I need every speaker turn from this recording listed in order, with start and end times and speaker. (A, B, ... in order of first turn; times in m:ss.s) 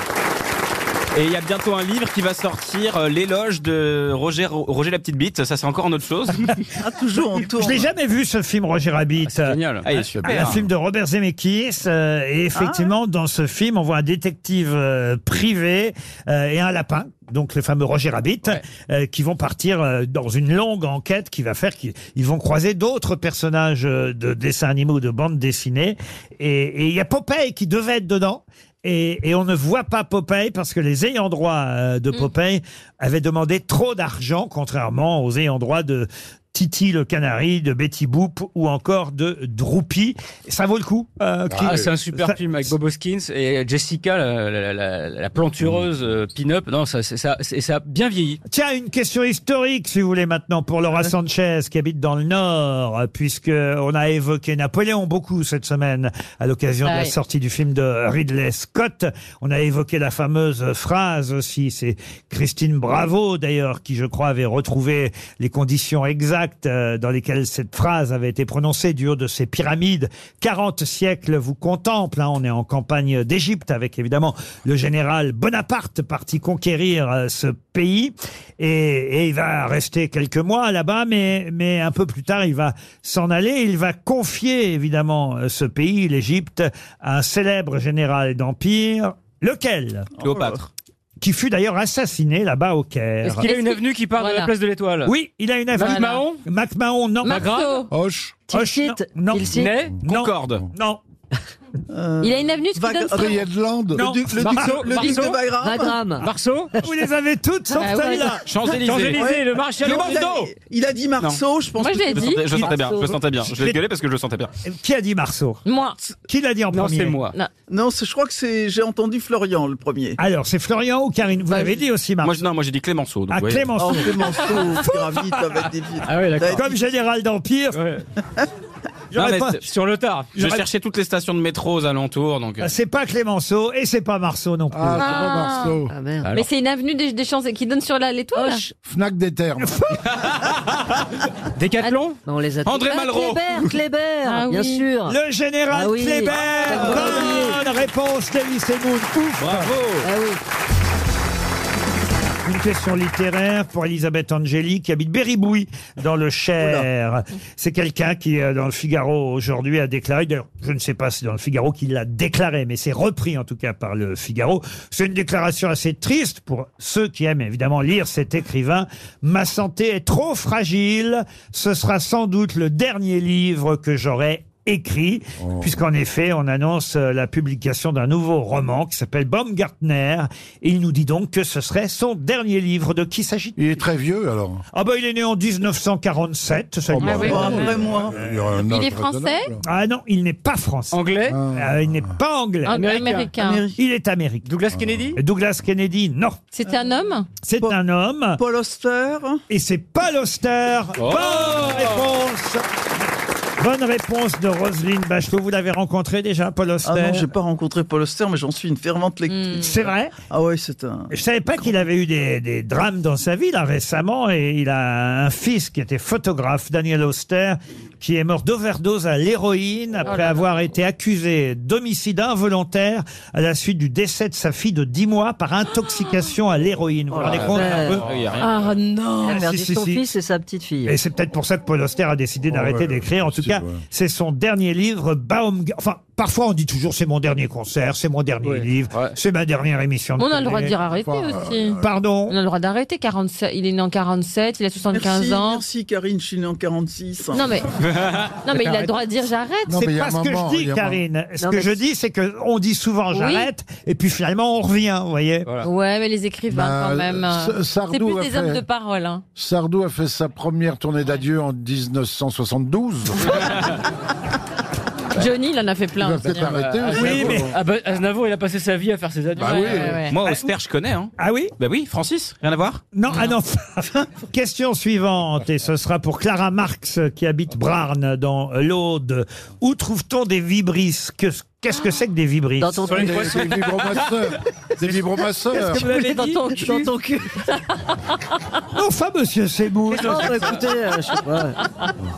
0:01.1-0:06.5 A
0:06.8-0:07.9 B
0:07.6-0:09.6 C
0:09.3-0:10.3 D
0:09.8-0:10.6 A
0:10.2-0:10.6 E
0:10.2-0:42.4 C
0:12.6-0:12.9 B
0:41.5-0:41.9 E
0:41.6-0:48.4 D
0:48.5-1:30.1 C
0:56.8-0:57.1 F
1:30.2-1:30.6 B
1:30.2-1:30.7 A
1:31.2-1:33.5 C
1:33.2-1:35.1 D
1:33.3-1:34.5 F
1:35.0-1:37.6 C
1:35.8-1:36.4 D
1:35.8-1:36.2 F
1:37.2-1:37.9 F
1:37.2-1:37.8 D
1:37.9-1:38.4 E
1:38.5-1:39.8 G
1:38.5-1:41.0 C
1:39.6-1:40.0 D
1:40.0-1:40.6 A
1:41.9-1:43.4 B
1:42.2-1:43.4 F
1:43.2-1:44.0 E
1:43.9-1:45.1 C
1:44.0-1:46.0 B
1:44.4-1:45.4 D
1:45.6-1:46.3 G
1:46.2-1:46.8 D
1:46.8-1:48.5 C
1:47.8-1:48.3 G
1:47.8-1:48.4 F
1:48.5-1:49.2 A
1:48.7-1:50.5 D
1:49.0-1:52.2 B
1:51.2-1:54.5 A
1:51.8-1:52.5 F
1:52.5-1:53.8 C
1:54.6-1:55.6 C
1:55.6-1:56.0 F
1:56.3-1:57.2 C
1:56.7-1:57.4 D
1:57.7-2:00.2 B
2:00.2-2:02.4 C
2:02.2-2:03.7 A
2:03.3-2:04.8 C
2:03.8-2:06.7 B
2:06.0-2:06.6 D
2:06.5-2:07.8 C
2:07.8-2:08.0 D
2:09.1-2:09.6 C
2:09.1-2:09.6 A
2:09.6-2:10.4 D
2:10.4-2:12.7 A
2:10.4-2:10.6 C
2:12.6-2:15.3 C
2:14.7-2:15.9 E
2:15.0-2:15.8 F
2:15.9-2:16.4 G
2:16.3-2:18.7 F
2:18.3-2:18.7 G
2:18.8-2:19.9 E
2:19.6-2:20.1 C
2:20.1-2:20.4 A
2:21.6-2:22.2 D
2:22.2-2:25.2 G
2:22.6-2:23.4 A
2:24.2-2:24.9 F
2:25.1-2:29.7 C
2:25.7-2:27.6 G
2:29.4-2:30.1 A
2:30.0-2:30.4 G
2:32.4-3:03.6 C
2:36.6-2:36.8 B
2:55.4-2:55.7 E
3:03.6-3:04.6 E
3:04.7-3:08.4 C
3:06.9-3:09.6 E
3:07.0-3:07.5 F
3:07.2-3:08.2 B
3:08.6-3:09.5 F
3:09.6-3:11.0 C
3:10.9-3:11.4 D
3:11.3-3:11.8 E
3:11.5-3:12.9 C
3:12.7-3:13.7 F
3:12.7-3:13.3 D
3:13.4-3:13.7 B
3:13.8-3:14.5 C
3:14.4-3:15.2 D
3:14.7-3:15.1 E
3:15.2-3:16.4 C
3:16.5-3:17.4 F
3:17.4-3:18.4 C
3:18.4-3:19.4 B
3:19.5-3:22.6 C
3:21.0-3:22.0 D
3:23.6-3:27.3 C
3:26.8-3:29.8 B
3:29.6-3:30.2 C
3:30.3-3:31.1 B
3:31.1-3:48.0 C
3:40.1-3:40.4 F
3:47.1-3:48.0 G
3:47.2-3:48.5 A
3:48.4-3:49.4 F
3:49.2-3:51.0 G
3:49.2-3:50.0 C
3:50.9-4:00.8 C
3:52.5-3:53.8 E
3:58.4-3:59.1 D
4:00.2-4:05.6 F
4:00.4-4:01.8 E
4:01.8-4:02.4 C
4:04.9-4:07.4 B
4:07.3-4:07.7 F
4:08.4-4:09.8 F
4:08.6-4:08.8 D
4:09.7-4:11.0 E
4:09.7-4:15.5 C
4:11.4-4:11.8 G
4:13.1-4:13.5 F
4:15.6-4:19.2 F
4:16.5-4:18.6 E
4:19.4-4:23.2 E
4:25.1-4:27.2 F
4:26.0-4:27.6 E
4:26.4-4:29.9 D
4:26.9-4:27.5 C
4:29.4-4:30.1 E
4:29.4-4:30.1 F
4:30.1-4:32.8 A
4:30.1-4:30.5 C
4:31.2-4:31.5 C
4:32.9-4:43.3 C
4:42.6-4:43.5 G
4:42.9-4:45.9 E
4:43.0-4:43.8 D
4:45.6-4:47.5 G
4:45.6-4:46.9 F
4:45.9-4:46.6 C
4:48.8-4:50.6 C
4:49.9-4:51.6 G